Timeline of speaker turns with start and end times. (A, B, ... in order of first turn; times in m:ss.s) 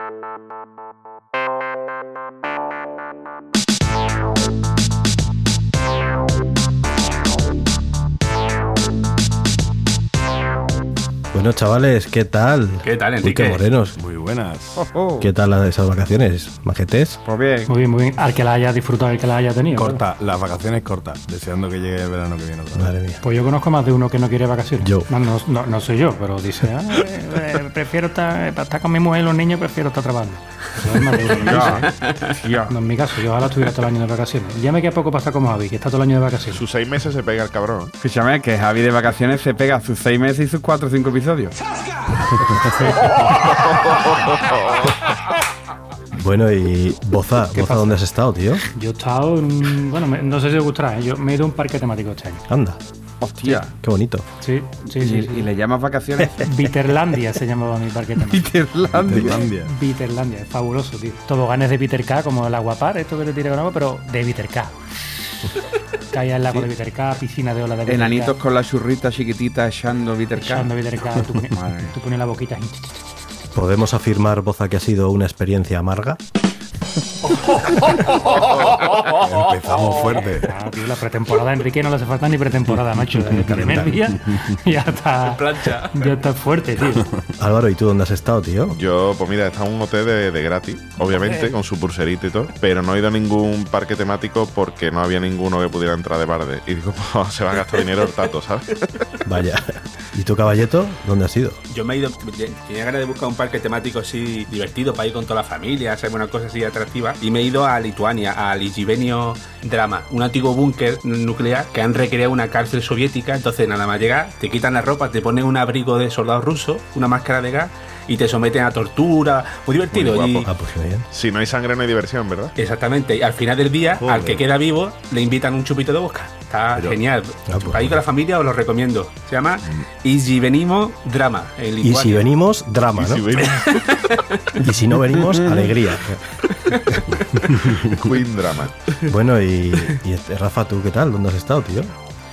0:11.3-0:14.0 A
0:12.8-0:13.6 B
0:14.0-0:14.8 C
0:14.8-0:15.3 D
0:15.2-0:17.2 A
0:17.2-0:17.7 D
0:17.7-0:20.0 E
0:19.8-0:22.9 C
0:22.7-0:23.2 A
0:23.2-0:31.9 E
0:24.8-0:25.1 A
0:31.3-0:32.7 D
0:32.7-0:36.6 E
0:36.5-0:37.9 F
0:38.0-0:41.5 D
0:43.6-0:44.8 F
0:46.1-0:48.6 A
0:47.5-0:48.0 E
0:48.7-0:52.4 E
0:52.5-0:52.8 A
0:53.2-0:53.7 D
0:53.7-0:54.2 A
0:54.4-0:55.5 E
0:54.9-0:56.5 D
0:56.4-0:58.5 E
0:58.3-0:59.5 D
0:58.9-0:59.7 C
0:59.3-1:04.8 E
1:06.1-1:08.3 E
1:07.8-1:10.7 D
1:10.4-1:13.0 E
1:11.5-1:11.9 D
1:13.5-1:16.2 A
1:18.8-1:20.5 C
1:20.4-1:27.1 E
1:23.5-1:24.0 C
1:25.2-1:26.2 B
1:27.4-1:28.8 A
1:28.7-1:38.8 F
1:39.2-1:41.6 A
1:41.7-2:00.5 B
1:59.9-2:00.5 F
2:00.4-2:01.0 A
2:01.1-2:02.5 F
2:02.6-2:12.3 B
2:04.0-2:04.5 C
2:07.5-2:08.0 A
2:11.8-2:13.2 A
2:13.0-2:13.8 F
2:13.6-2:14.2 B
2:14.6-2:16.2 A
2:17.9-2:18.7 F
2:19.1-2:21.9 A